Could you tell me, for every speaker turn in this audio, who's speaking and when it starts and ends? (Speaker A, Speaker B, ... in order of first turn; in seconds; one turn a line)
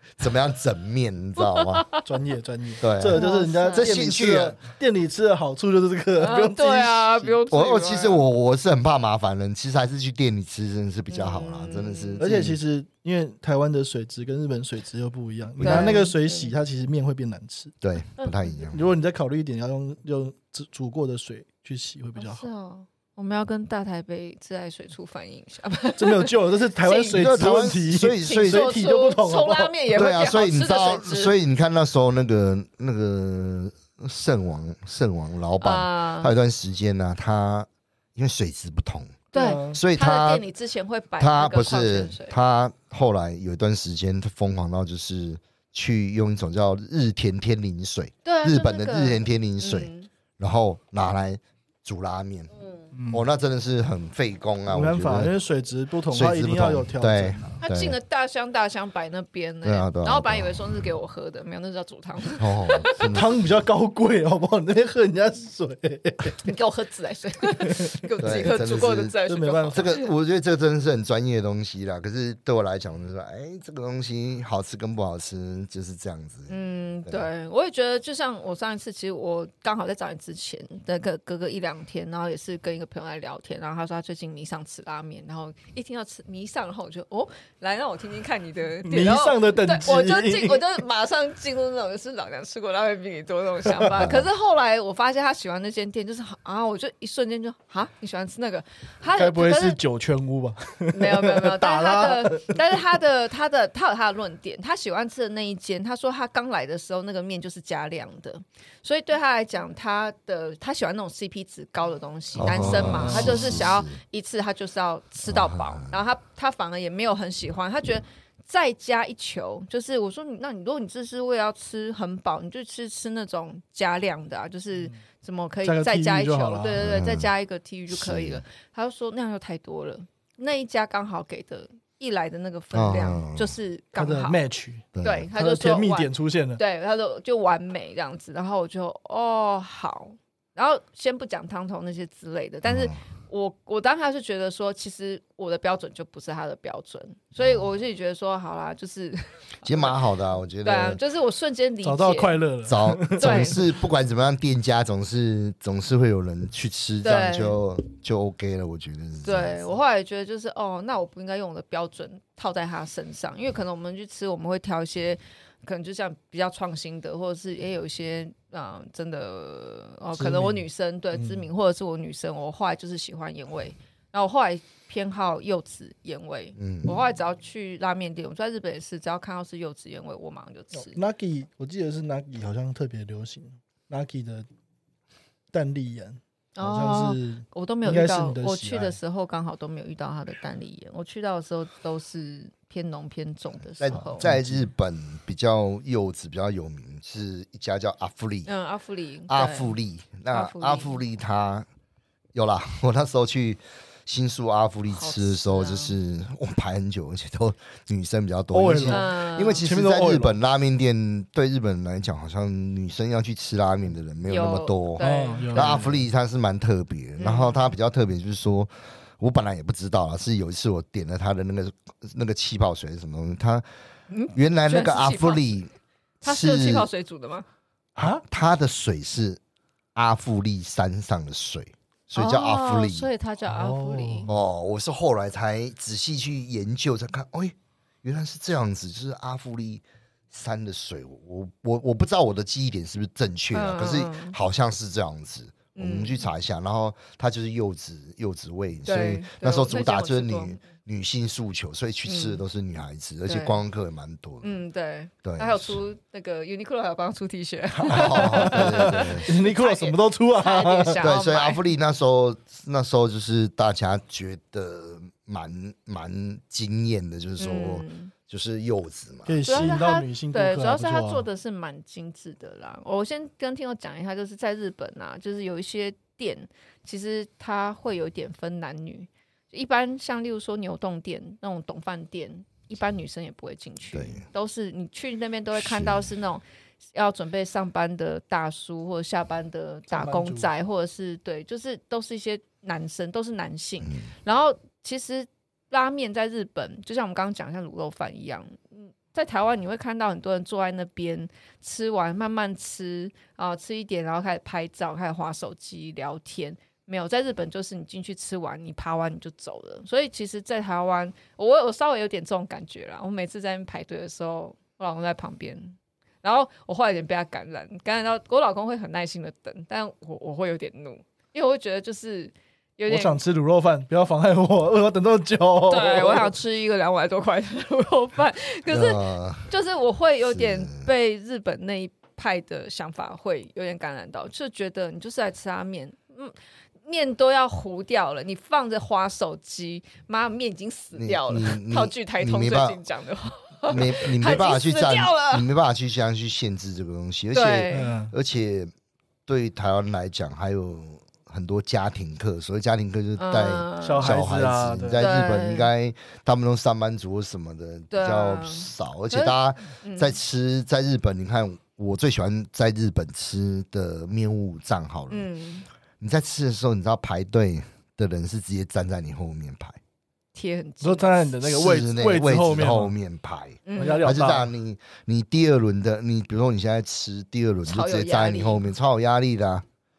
Speaker A: 0.2-1.9
Speaker B: 1.4-2.0
Speaker C: 2.0-7.4
Speaker A: 2.8-4.5
Speaker B: 3.1-3.9
Speaker B: 6.2-8.2
Speaker A: 7.5-12.6
Speaker B: 11.1-12.2
Speaker C: 12.2-17.8
Speaker A: 15.6-16.0
Speaker B: 15.6-16.5
Speaker A: 17.8-18.8
Speaker C: 18.7-22.4
Speaker B: 22.2-27.2
Speaker C: 26.0-29.8
Speaker A: 27.1-28.7
Speaker B: 28.2-31.3
Speaker A: 29.9-40.4
Speaker B: 35.6-36.3
Speaker B: 39.3-42.4
Speaker C: 39.3-39.8
Speaker A: 41.2-52.5
Speaker B: 48.2-50.1
Speaker C: 52.9-53.2
Speaker A: 53.1-55.3
Speaker C: 54.7-57.6
Speaker A: 56.1-58.0
Speaker B: 57.6-63.0
Speaker A: 59.6-60.6
Speaker A: 62.4-63.4
Speaker C: 63.1-66.5
Speaker B: 66.4-70.1
Speaker C: 67.6-68.5
Speaker A: 68.2-69.2
Speaker C: 69.3-69.8
Speaker A: 69.7-76.5
Speaker B: 76.5-99.8
Speaker C: 88.8-90.8
Speaker A: 94.0-94.3
Speaker C: 99.1-102.6
Speaker B: 100.9-134.4
Speaker A: 112.3-114.0
Speaker C: 112.6-113.7
Speaker A: 115.2-116.0
Speaker C: 125.6-126.8
Speaker A: 126.8-127.3
Speaker A: 127.9-128.4
Speaker A: 132.7-133.5
Speaker C: 133.9-136.6
Speaker A: 134.9-135.3
Speaker B: 135.0-150.0
Speaker A: 142.6-143.0
Speaker A: 147.4-147.6
Speaker A: 149.6-151.0
Speaker B: 150.6-152.4
Speaker C: 151.8-153.7
Speaker A: 152.7-159.6
Speaker B: 153.2-153.6
Speaker B: 157.0-157.6
Speaker B: 159.2-181.0
Speaker C: 170.2-171.5
Speaker A: 176.6-176.9
Speaker C: 180.7-184.5
Speaker C: 185.5-189.0
Speaker B: 186.6-194.3
Speaker A: 193.8-198.5
Speaker C: 193.9-194.7
Speaker B: 198.4-199.7
Speaker A: 199.3-201.7
Speaker B: 200.3-201.0
Speaker A: 202.3-223.6
Speaker B: 204.9-205.9
Speaker C: 208.5-209.1
Speaker B: 208.9-209.7
Speaker C: 209.6-210.3
Speaker B: 214.3-215.8
Speaker C: 215.0-216.0
Speaker B: 217.2-217.6
Speaker B: 224.1-225.5
Speaker A: 224.3-225.7
Speaker B: 226.2-227.4
Speaker A: 226.2-226.9
Speaker A: 228.0-229.4
Speaker C: 228.0-228.2
Speaker A: 229.9-233.1
Speaker B: 232.2-234.3
Speaker C: 233.4-234.3
Speaker A: 234.3-254.5
Speaker B: 243.5-244.3
Speaker B: 245.7-246.3
Speaker B: 248.8-250.6
Speaker B: 252.0-252.4
Speaker B: 253.2-253.6
Speaker B: 254.4-261.6
Speaker A: 255.2-255.8
Speaker C: 257.8-261.0
Speaker A: 257.9-259.3
Speaker A: 261.0-269.4
Speaker B: 267.4-268.1
Speaker C: 269.2-271.2
Speaker B: 269.4-286.4
Speaker A: 283.9-284.2
Speaker A: 285.6-286.1
Speaker B: 286.9-323.2
Speaker C: 289.9-290.5
Speaker A: 293.8-294.1
Speaker C: 322.9-326.4
Speaker B: 325.7-336.3
Speaker A: 328.7-329.5
Speaker A: 330.3-330.9
Speaker B: 336.8-345.5
Speaker A: 340.9-342.8
Speaker A: 343.7-348.7
Speaker B: 347.3-347.9
Speaker C: 347.7-348.1
Speaker A: 349.3-365.3
Speaker B: 353.2-354.1
Speaker C: 353.8-355.1
Speaker B: 355.0-355.7
Speaker B: 357.9-360.2
Speaker B: 365.1-365.6
Speaker A: 366.0-369.8
Speaker B: 370.3-371.1
Speaker C: 370.8-372.9
Speaker A: 371.4-379.6
Speaker B: 373.6-374.1
Speaker C: 373.8-374.5
Speaker B: 377.6-378.6